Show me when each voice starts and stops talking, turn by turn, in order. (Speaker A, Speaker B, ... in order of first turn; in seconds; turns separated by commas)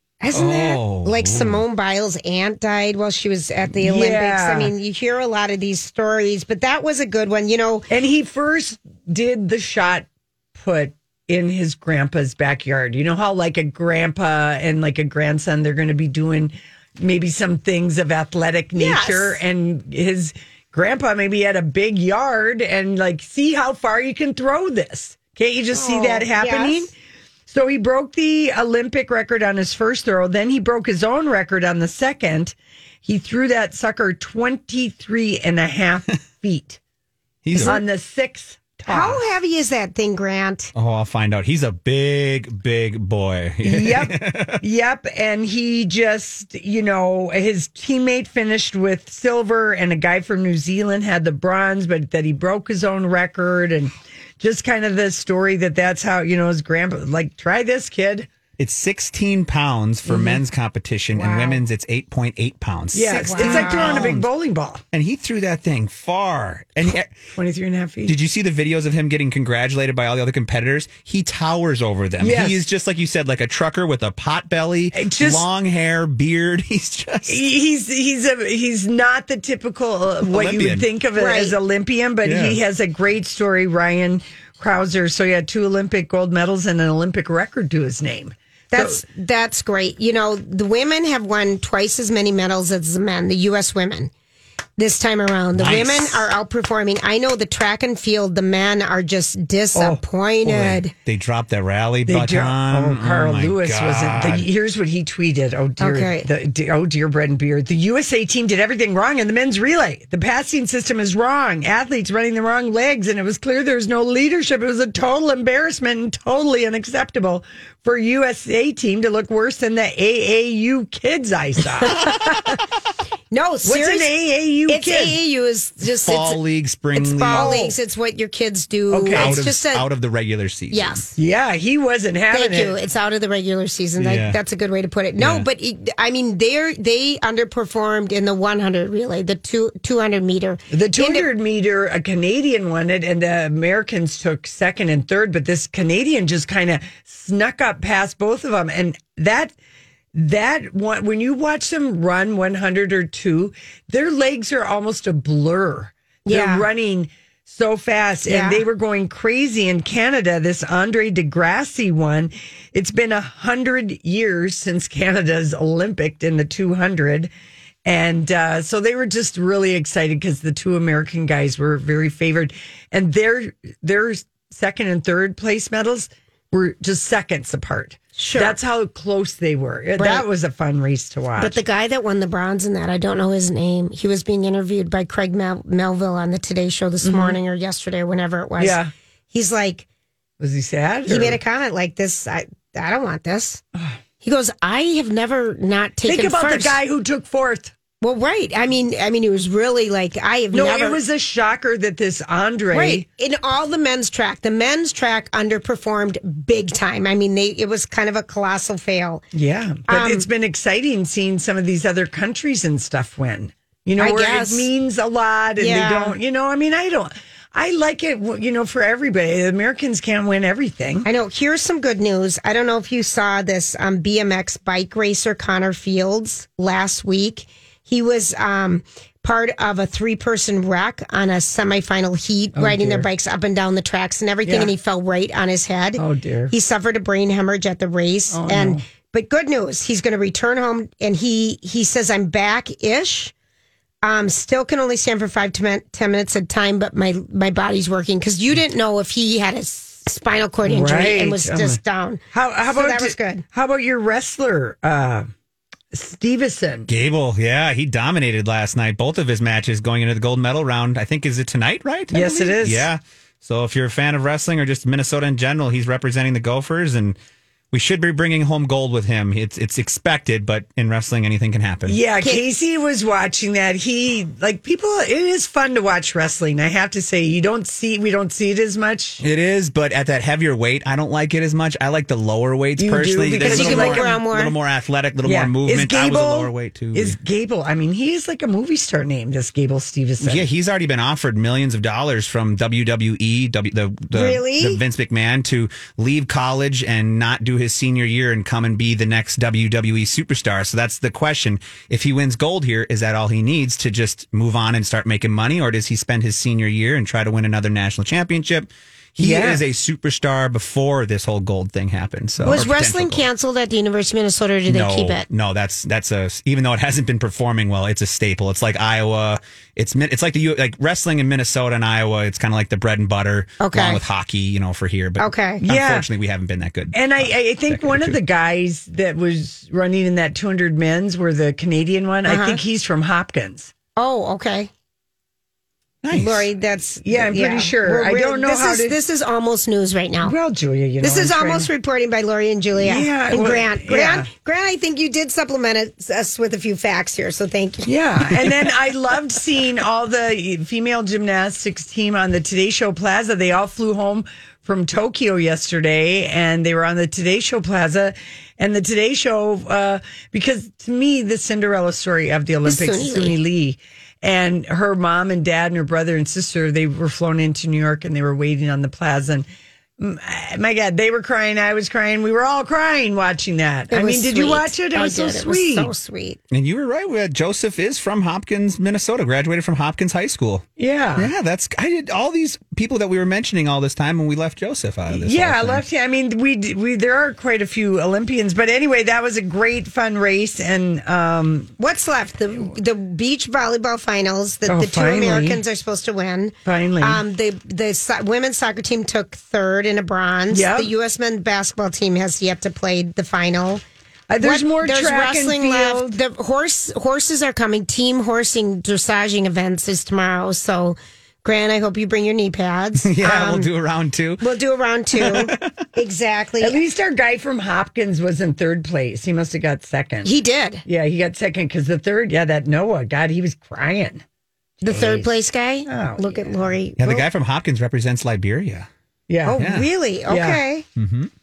Speaker A: 0.2-7.9, Speaker B: 0.3-1.6, Speaker C: 3.7-4.7, Speaker C: 7.9-26.9, Speaker A: 18.8-19.4, Speaker A: 25.7-26.9, Speaker C: 27.5-36.8, Speaker B: 37.4-37.8, Speaker A: 37.5-37.8, Speaker C: 37.6-39.2, Speaker A: 38.9-40.7, Speaker B: 40.7-44.6, Speaker C: 43.6-58.3, Speaker B: 58.6-64.3, Speaker C: 60.1-60.4, Speaker A: 61.1-61.6, Speaker C: 62.9-64.8, Speaker A: 63.1-64.1, Speaker B: 64.9-67.1, Speaker C: 67.3-68.1, Speaker B: 68.1-77.4, Speaker C: 72.2-72.6, Speaker C: 74.9-75.4, Speaker C: 77.2-89.0, Speaker B: 80.2-80.9, Speaker A: 81.2-81.5, Speaker B: 82.2-82.6, Speaker A: 88.7-94.1, Speaker A: 94.8-100.9, Speaker B: 95.5-96.2, Speaker C: 99.7-100.0, Speaker B: 100.4-104.5, Speaker C: 102.1-122.4, Speaker A: 105.8-106.3, Speaker A: 121.8-122.6, Speaker A: 123.3-124.1, Speaker C: 123.6-125.2, Speaker A: 124.7-126.4, Speaker B: 126.0-127.5, Speaker C: 127.0-127.8, Speaker A: 127.0-129.9, Speaker C: 128.9-129.4, Speaker B: 129.1-131.0, Speaker A: 130.7-131.1, Speaker C: 131.2-132.7, Speaker A: 132.3-141.3, Speaker B: 134.0-134.4, Speaker B: 135.2-135.4, Speaker C: 140.7-149.5, Speaker C: 150.1-167.3, Speaker A: 156.2-156.7, Speaker A: 158.3-158.6, Speaker C: 167.8-181.6, Speaker A: 178.2-178.6, Speaker A: 180.0-180.2, Speaker A: 181.4-188.8, Speaker C: 187.0-187.4, Speaker C: 188.6-188.9, Speaker A: 189.3-189.8, Speaker C: 190.4-191.4, Speaker A: 191.1-193.6, Speaker A: 194.2-196.8, Speaker C: 196.0-197.7, Speaker A: 198.0-201.0, Speaker C: 200.5-203.0, Speaker A: 202.7-209.2, Speaker C: 209.3-221.1, Speaker A: 209.9-210.2, Speaker A: 214.0-214.7, Speaker A: 215.6-216.2, Speaker A: 221.1-243.3, Speaker C: 232.5-233.1, Speaker C: 234.4-234.7, Speaker C: 236.0-236.5, Speaker C: 238.3-238.8, Speaker A: 244.0-253.4, Speaker C: 250.6-251.8, Speaker C: 252.3-255.3, Speaker C: 255.9-256.9, Speaker B: 256.9-267.1, Speaker C: 262.1-262.9, Speaker B: 267.7-272.0, Speaker C: 271.9-279.2, Speaker B: 279.2-287.2, Speaker C: 282.8-284.1, Speaker A: 283.4-284.5, Speaker C: 285.2-290.5, Speaker B: 290.2-313.2, Speaker A: 294.1-294.8, Speaker C: 309.2-309.6, Speaker A: 312.4-315.2, Speaker B: 314.7-328.2, Speaker A: 323.6-324.0, Speaker A: 325.2-325.6, Speaker C: 325.6-326.1, Speaker C: 326.9-333.7, Speaker A: 332.2-332.6, Speaker A: 334.0-334.7, Speaker B: 336.0-336.5, Speaker A: 336.1-340.3, Speaker C: 337.0-339.0, Speaker C: 340.2-341.7, Speaker A: 341.0-348.3, Speaker C: 342.8-344.3, Speaker C: 347.9-369.4, Speaker A: 362.6-363.4, Speaker C: 370.0-375.9, Speaker A: 373.9-376.4, Speaker B: 376.5-380.6, Speaker C: 380.8-381.3, Speaker B: 381.2-385.8, Speaker C: 385.1-391.7, Speaker A: 391.8-403.8, Speaker C: 394.6-395.6, Speaker C: 396.6-397.2, Speaker C: 400.5-400.9, Speaker C: 404.3-406.2, Speaker A: 404.4-413.7, Speaker B: 413.0-414.4, Speaker A: 414.4-416.8, Speaker B: 415.1-415.7, Speaker C: 416.6-420.3, Speaker A: 420.2-420.8, Speaker C: 420.8-424.2, Speaker C: 424.8-425.3, Speaker A: 424.8-427.2, Speaker C: 425.9-426.6, Speaker B: 427.0-428.9, Speaker C: 429.3-429.6, Speaker A: 429.4-430.8, Speaker B: 429.6-429.9, Speaker C: 430.3-430.6, Speaker B: 430.9-431.3